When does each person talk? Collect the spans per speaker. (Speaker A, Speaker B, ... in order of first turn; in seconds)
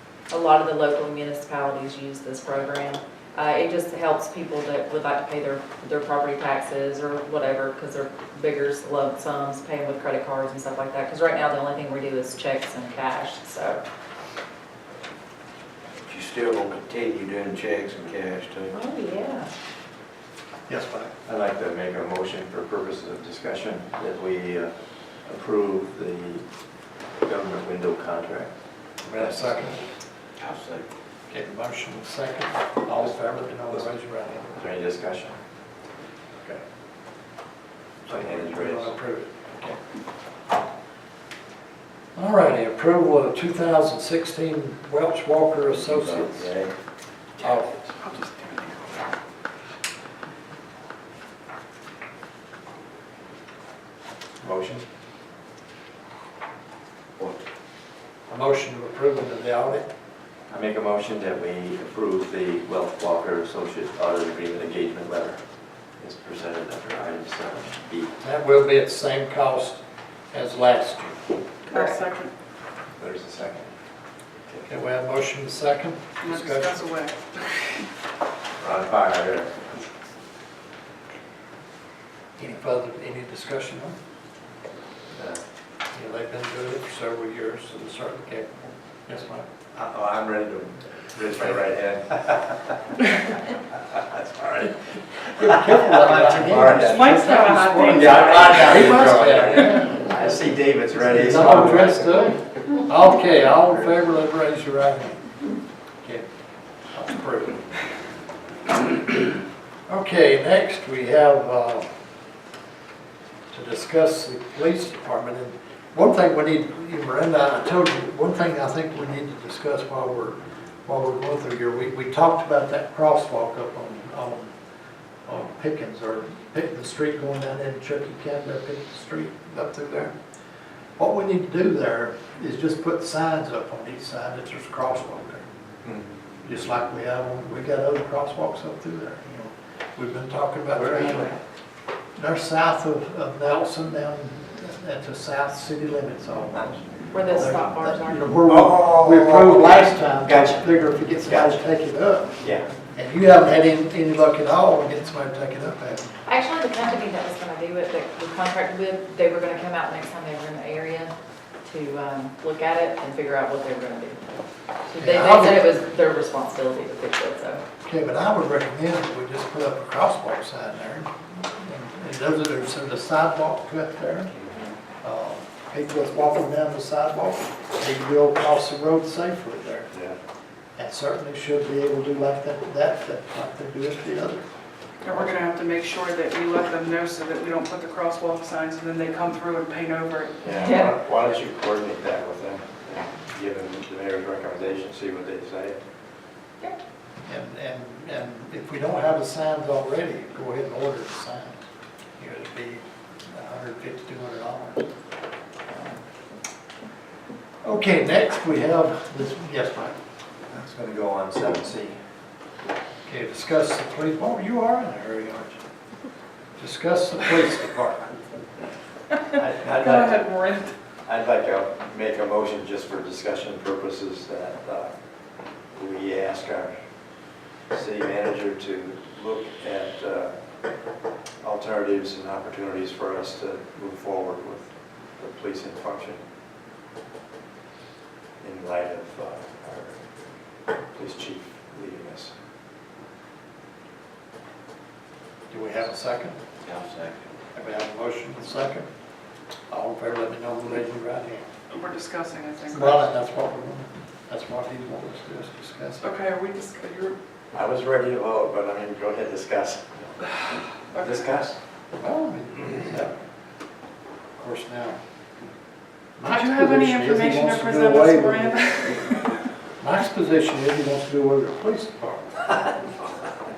Speaker A: 0.3-13.8, 18.7-19.5, 71.7-72.0, 147.1-148.3, 156.3-161.1, 161.6-164.2, 164.9-167.6, 190.6-190.9
Speaker B: 16.2-18.7, 30.4-30.8, 246.6-247.2
Speaker C: 20.7-21.1, 29.0-29.8, 31.3-34.5, 38.0-39.8, 42.1-46.5, 47.4-47.9, 58.3-59.9, 68.2-71.3, 74.7-76.8, 82.4-84.0, 85.9-88.5, 89.0-89.5, 95.2-100.2, 101.0-105.2, 106.0-106.3, 106.9-107.6, 109.9-111.9, 113.5-124.5, 125.2-130.1, 131.0-135.4, 136.4-141.3, 142.2-152.4, 152.9-156.1, 165.0-165.8, 167.8-174.3, 175.0-179.9, 180.8-184.4, 197.3-201.6, 202.2-204.9, 207.6-209.9, 213.1-215.6, 216.6-218.1, 245.5-246.4, 247.5-248.9, 249.7-251.4, 252.7-256.1, 262.0-263.1, 264.4-265.0, 266.2-268.8, 269.8-272.6
Speaker D: 21.2-26.4, 27.2-28.5, 29.1-29.8, 34.5-35.4, 38.0-39.0, 45.8-46.7, 54.4-54.8, 60.5-65.4, 66.0-68.1, 73.0-73.7, 78.6-79.7, 85.1-85.4, 89.7-92.6, 93.9-94.7, 95.2-102.3, 140.7-141.4, 148.5-151.6, 152.4-152.7, 174.4-174.7, 190.4-195.8, 210.5-212.0, 219.3-220.2, 221.1-224.9, 225.7-226.7, 227.7-230.3, 231.4-236.2, 238.4-240.0, 240.9-242.3, 257.5-260.1, 261.0-261.6
Speaker E: 48.0-49.0, 71.7-72.3, 76.2-77.9, 96.8-98.9, 185.0-190.8, 219.7-220.7, 251.7-253.1, 256.0-257.1, 260.9-261.4, 266.2-269.4